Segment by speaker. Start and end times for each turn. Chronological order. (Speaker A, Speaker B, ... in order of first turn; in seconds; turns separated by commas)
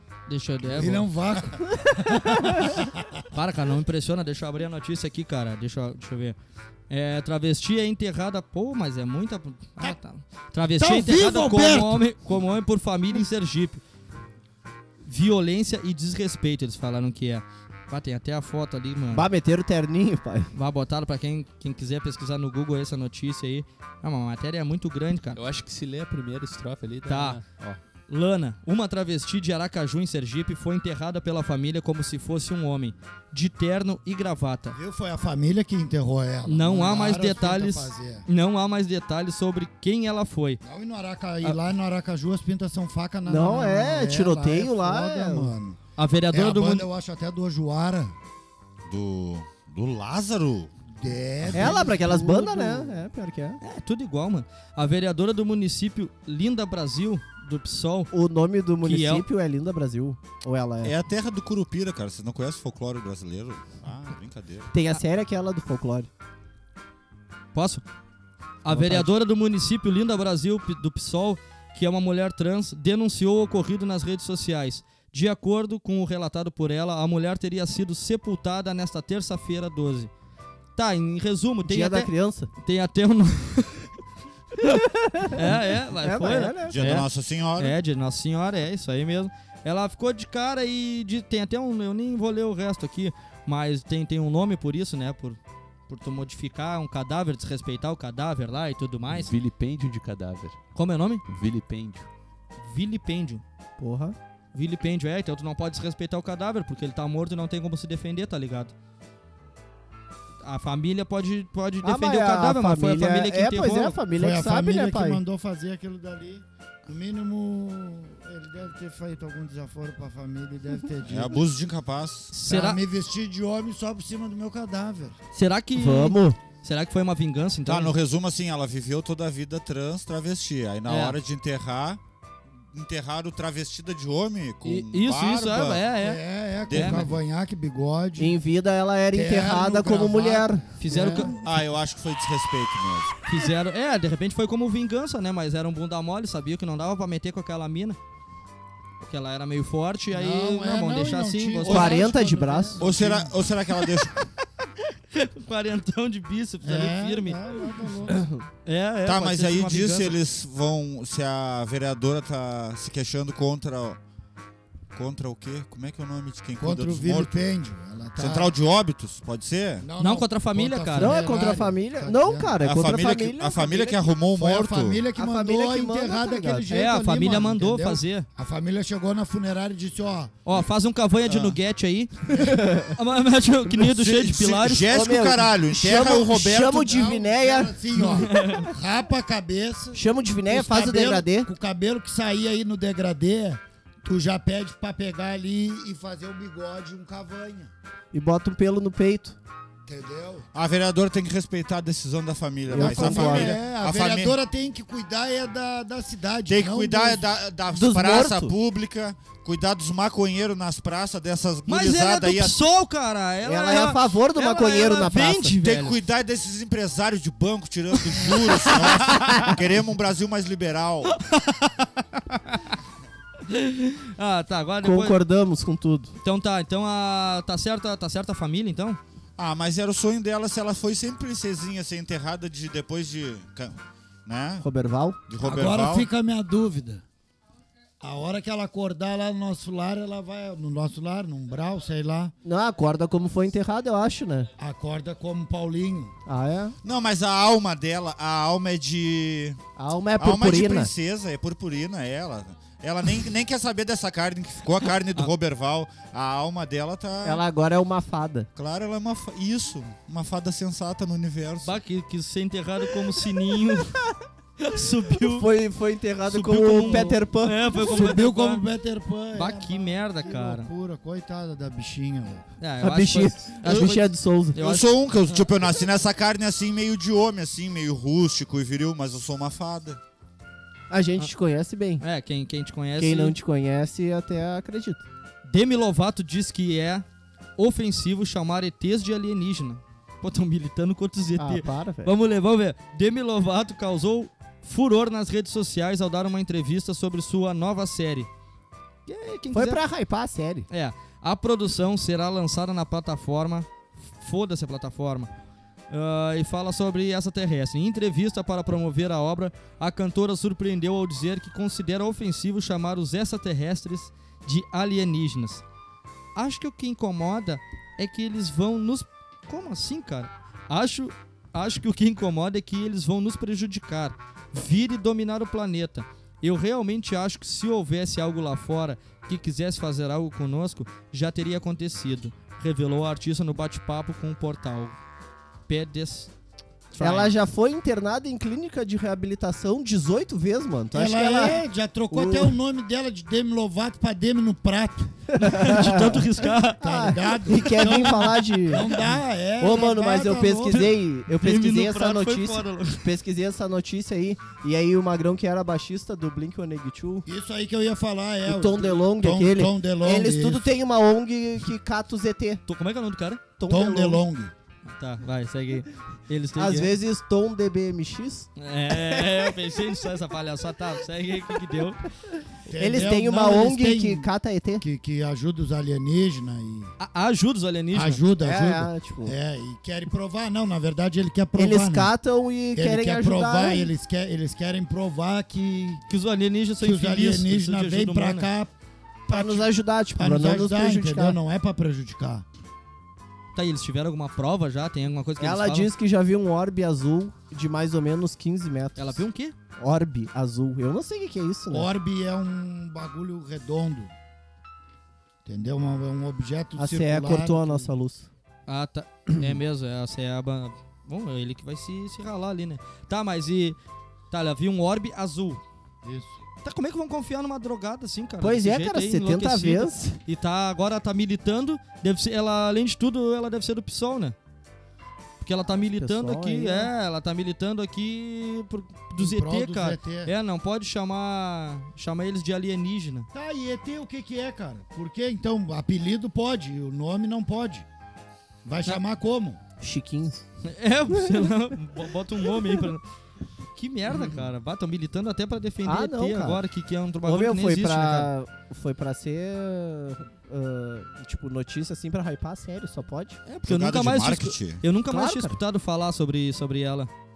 Speaker A: 0.3-1.1, Speaker B: 0.7-3.0, Speaker C: 1.7-2.7, Speaker A: 3.3-6.4, Speaker A: 6.9-13.8, Speaker B: 10.8-12.0, Speaker A: 15.0-19.3, Speaker C: 19.1-20.5, Speaker A: 20.5-25.4, Speaker D: 25.3-27.8, Speaker A: 27.1-27.4, Speaker A: 28.1-34.8, Speaker B: 34.7-38.3, Speaker A: 36.5-40.6, Speaker B: 40.6-45.8, Speaker C: 43.3-45.5, Speaker A: 46.0-46.9, Speaker B: 46.3-48.1, Speaker E: 48.9-50.7, Speaker B: 51.0-53.0, Speaker E: 51.5-51.7, Speaker C: 51.5-53.6, Speaker A: 53.6-58.1, Speaker C: 58.1-61.0, Speaker A: 58.8-59.3, Speaker E: 60.8-64.7, Speaker C: 64.7-66.1, Speaker A: 67.5-67.8, Speaker A: 68.6-80.1, Speaker C: 68.7-69.1, Speaker A: 80.8-83.9, Speaker C: 81.7-82.5, Speaker A: 84.6-87.1, Speaker C: 84.6-86.8, Speaker E: 86.7-87.8, Speaker A: 87.6-99.3, Speaker D: 99.1-100.6, Speaker A: 100.8-101.2, Speaker D: 101.3-102.1, Speaker A: 102.7-103.4, Speaker C: 103.8-104.2, Speaker A: 104.5-108.7, Speaker A: 110.4-114.0, Speaker C: 111.8-115.2, Speaker B: 114.2-121.4, Speaker E: 121.1-122.3, Speaker A: 122.3-122.8, Speaker B: 122.5-125.2, Speaker A: 125.3-128.0, Speaker C: 125.8-126.4, Speaker E: 127.7-132.0, Speaker A: 130.9-131.2, Speaker E: 132.7-135.8, Speaker A: 134.6-137.1, Speaker B: 135.9-138.3, Speaker E: 136.7-137.1, Speaker C: 138.2-140.7, Speaker B: 139.1-141.4, Speaker A: 140.8-141.3, Speaker E: 141.4-143.1, Speaker A: 143.3-148.0, Speaker A: 149.0-152.1, Speaker B: 150.1-153.5, Speaker C: 151.6-152.8, Speaker E: 152.8-154.3, Speaker A: 155.1-157.4, Speaker B: 156.6-158.3, Speaker A: 158.7-160.2, Speaker E: 159.1-164.0, Speaker E: 164.9-167.4, Speaker B: 166.6-168.5, Speaker E: 168.2-169.9, Speaker B: 169.8-172.5, Speaker A: 170.0-171.2, Speaker C: 170.9-174.0, Speaker E: 172.6-175.0, Speaker B: 174.3-180.4, Speaker C: 175.2-176.8, Speaker A: 176.7-178.3, Speaker A: 180.4-184.9, Speaker C: 182.4-182.9, Speaker E: 183.7-186.8, Speaker C: 184.9-188.2, Speaker B: 186.7-197.7, Speaker A: 188.2-188.7, Speaker C: 189.9-191.5, Speaker C: 198.1-199.4, Speaker B: 199.9-200.5, Speaker E: 200.5-204.4, Speaker C: 202.7-203.6, Speaker B: 202.8-207.3, Speaker E: 206.5-212.6, Speaker C: 207.7-208.6, Speaker A: 211.7-216.0, Speaker C: 213.4-215.6, Speaker E: 215.6-221.2, Speaker A: 218.0-219.5, Speaker A: 221.1-221.8, Speaker A: 223.5-225.2, Speaker C: 224.8-226.2, Speaker A: 226.2-229.0, Speaker E: 229.4-234.7, Speaker C: 234.6-235.2, Speaker E: 235.3-236.1, Speaker B: 235.4-237.0, Speaker B: 238.0-242.3, Speaker C: 242.4-244.5, Speaker B: 244.6-246.2, Speaker C: 246.3-246.8, Speaker E: 246.8-249.6, Speaker C: 249.8-250.9, Speaker E: 250.2-257.4, Speaker C: 257.2-258.5, Speaker E: 258.6-261.7, Speaker A: 261.6-264.0, Speaker A: 264.6-265.5, Speaker C: 265.2-267.9, Speaker A: 266.3-268.7, Speaker B: 267.7-272.4, Speaker A: 269.3-270.7, Speaker A: 272.6-274.9, Speaker C: 272.8-274.6, Speaker E: 274.6-280.0, Speaker C: 280.9-282.0, Speaker A: 282.0-283.4, Speaker C: 283.0-285.1, Speaker A: 285.5-287.1, Speaker A: 287.6-298.3, Speaker C: 291.4-292.1, Speaker A: 299.1-299.8, Speaker C: 299.5-300.7, Speaker A: 300.7-305.3, Speaker A: 305.9-315.6, Speaker A: 316.4-335.0, Speaker A: 335.7-336.3, Speaker A: 336.9-337.3, Speaker C: 337.0-342.6, Speaker B: 340.9-345.3, Speaker A: 345.4-346.8, Speaker C: 345.4-349.0, Speaker B: 346.8-350.8, Speaker A: 347.6-348.1, Speaker C: 349.6-357.3, Speaker A: 350.7-353.1, Speaker B: 357.3-360.7, Speaker C: 358.4-362.6, Speaker A: 362.7-363.4, Speaker C: 363.6-364.2, Speaker B: 363.7-364.5, Speaker A: 364.9-367.0, Speaker C: 366.6-369.5, Speaker A: 368.6-372.1, Speaker B: 372.7-374.3, Speaker C: 372.8-374.9, Speaker B: 374.8-376.9, Speaker A: 377.0-378.2, Speaker B: 377.9-382.1, Speaker C: 378.4-379.4, Speaker C: 381.6-383.9, Speaker B: 382.8-386.0, Speaker A: 386.1-388.5, Speaker B: 386.8-388.7, Speaker B: 389.3-392.4, Speaker C: 389.3-391.4, Speaker A: 393.6-395.9, Speaker C: 395.4-399.2, Speaker A: 399.0-399.6, Speaker C: 399.8-401.9, Speaker B: 401.7-404.1, Speaker B: 405.5-407.9, Speaker C: 406.8-408.3, Speaker A: 408.7-413.8, Speaker A: 414.3-415.6, Speaker B: 416.0-416.4, Speaker A: 416.6-424.4, Speaker C: 418.4-420.2, Speaker A: 425.4-433.3, Speaker C: 426.0-426.9, Speaker B: 429.2-430.3, Speaker B: 433.3-437.9, Speaker B: 438.6-439.6, Speaker C: 439.8-440.4, Speaker A: 440.6-443.0, Speaker C: 441.1-441.5, Speaker A: 443.8-448.3, Speaker C: 445.9-446.6, Speaker C: 447.2-453.4, Speaker A: 453.5-457.1, Speaker E: 453.7-454.8, Speaker C: 455.1-455.6